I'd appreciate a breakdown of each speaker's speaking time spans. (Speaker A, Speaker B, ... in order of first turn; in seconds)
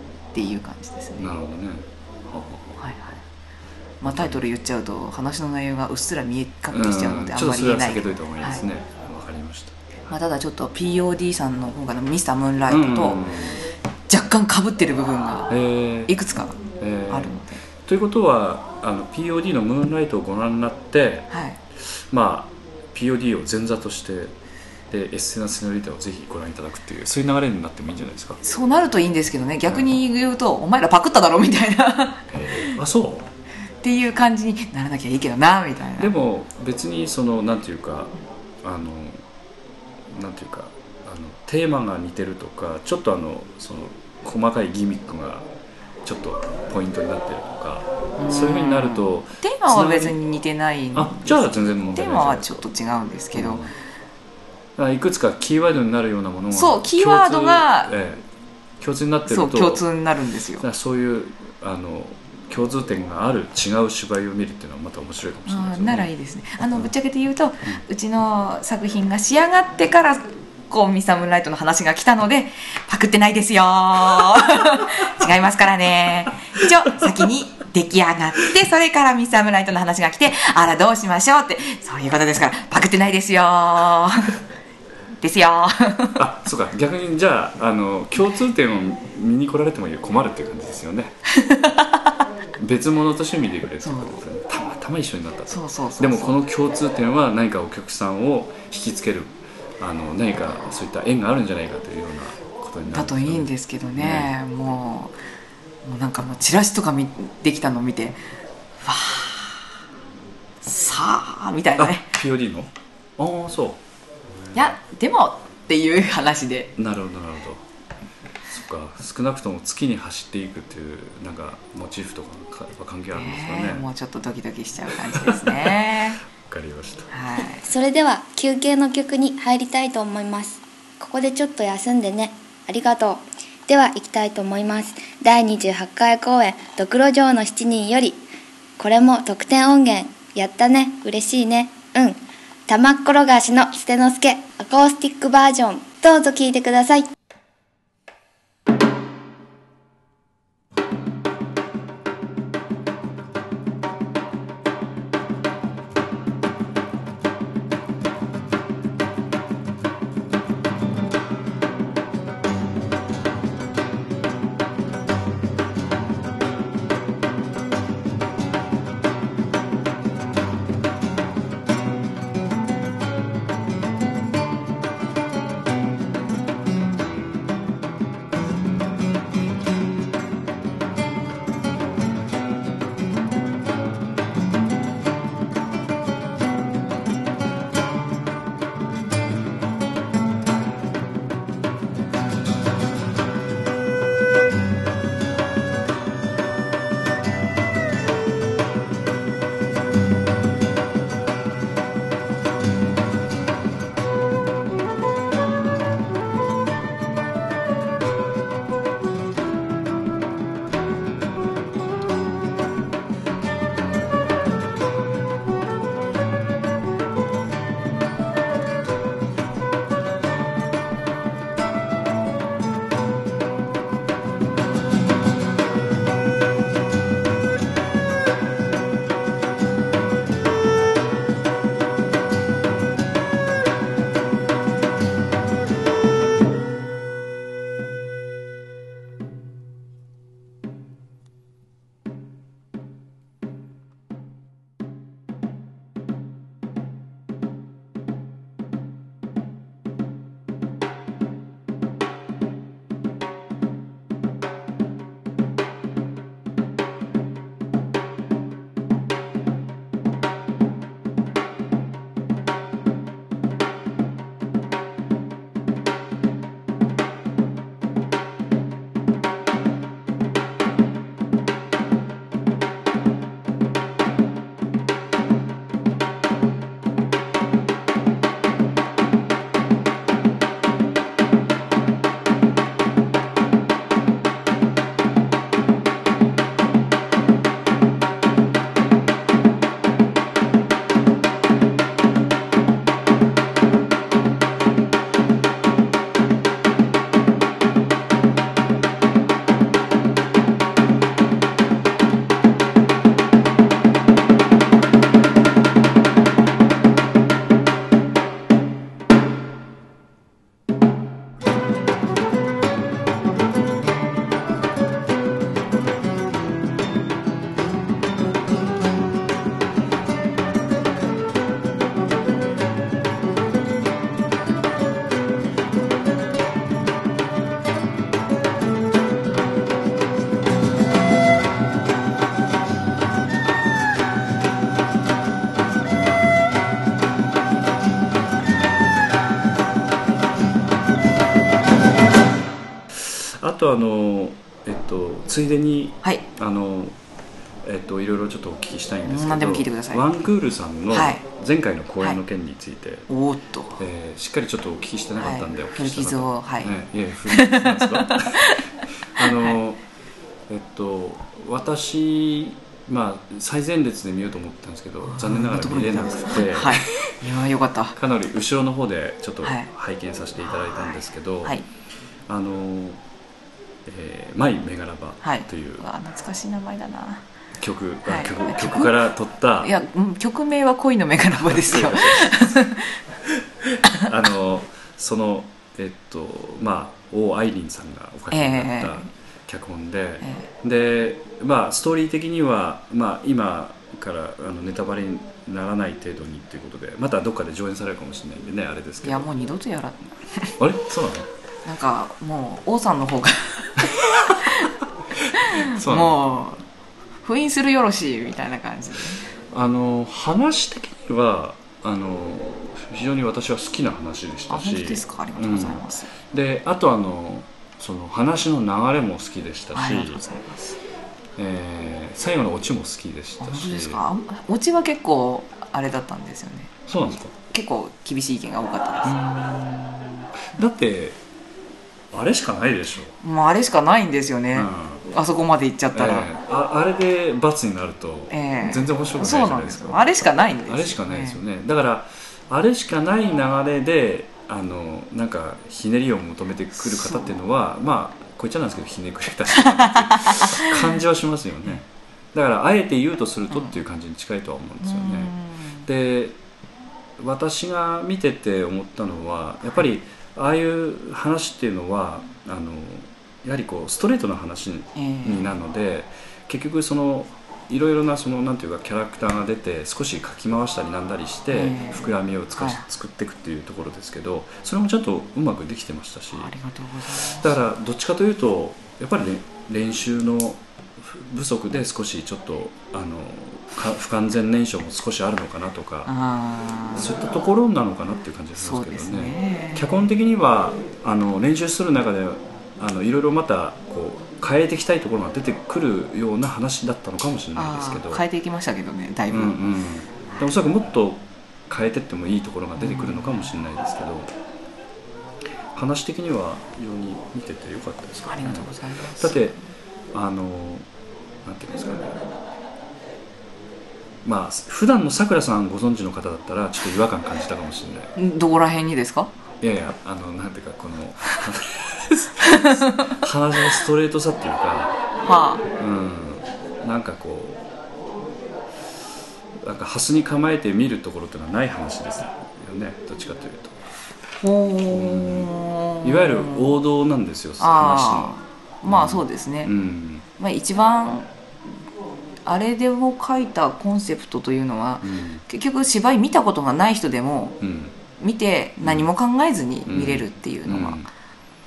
Speaker A: 0.3-1.3, 2.8-3.2, 4.0-8.6, 10.1-13.3, 14.1-15.5, 16.1-17.6, 21.3-21.6, 28.4-32.8, 33.8-36.1, 48.2-53.7, 56.5-57.9, 59.2-60.6, 65.5-84.4, 85.2-86.2, 91.3-92.1, 93.8-94.2, 95.5-96.4, 102.9-105.1, 105.8-108.2, 108.8-109.7, 110.6-112.1, 114.5-116.8, 123.1-126.2, 127.1-127.7, 349.1-350.2, 350.9-351.2, 353.1-353.8, 355.2-359.6, 365.0-368.0, 369.4-369.7, 370.5-371.6, 375.2-377.2, 378.1-379.0, 379.6-383.0, 388.3-389.1, 390.2-390.5, 399.0-400.5, 401.6-404.7, 405.3-406.6, 407.2-409.3, 414.5-416.1, 419.7-420.8, 423.4-426.7, 427.4-430.0, 433.2-436.3, 438.3-441.4, 446.8-447.3, 449.6-450.9, 454.8-455.9, 464.9-465.5, 471.5-472.8, 476.3-477.5, 486.1-487.1, 488.6-489.9, 497.5-499.6, 502.8-503.5, 508.2-509.6, 518.1-519.3, 522.4-523.2, 525.2-525.6, 534.4-536.8, 537.6-539.7, 540.4-541.3, 542.5-547.6, 548.2-551.0
Speaker B: 1.2-2.8, 4.0-4.4, 6.7-9.8, 12.7-13.6, 15.5-16.1, 16.7-24.3, 24.9-28.4, 32.3-33.3, 36.0-39.2, 40.1-45.5, 46.0-50.2, 50.9-52.7, 53.3-53.7, 54.8-58.2, 58.8-59.9, 60.6-66.1, 86.2-91.1, 92.6-104.3, 111.8-113.8, 116.8-117.6, 118.5-123.8, 125.0-127.1, 342.9-346.9, 347.6-353.1, 353.8-359.8, 360.5-367.1, 367.9-371.6, 372.3-373.0, 373.8-375.8, 377.6-379.7, 381.4-382.6, 383.7-399.3, 400.6-401.3, 404.3-404.6, 405.2-406.2, 409.5-420.2, 421.4-424.0, 426.9-427.3, 429.0-429.7, 430.5-431.2, 432.1-433.2, 434.5-435.0, 435.9-456.4, 457.2-476.5, 477.1-486.1, 486.9-498.2, 499.3-504.3, 505.7-509.6, 510.1-510.9, 511.4-512.1, 514.2-518.1, 519.6-525.0, 525.8-527.6, 529.6-533.8, 534.9-540.2, 545.0-545.4, 547.6-548.0, 548.8-549.1, 549.9-551.1
Speaker C: 127.6-138.2, 138.8-147.1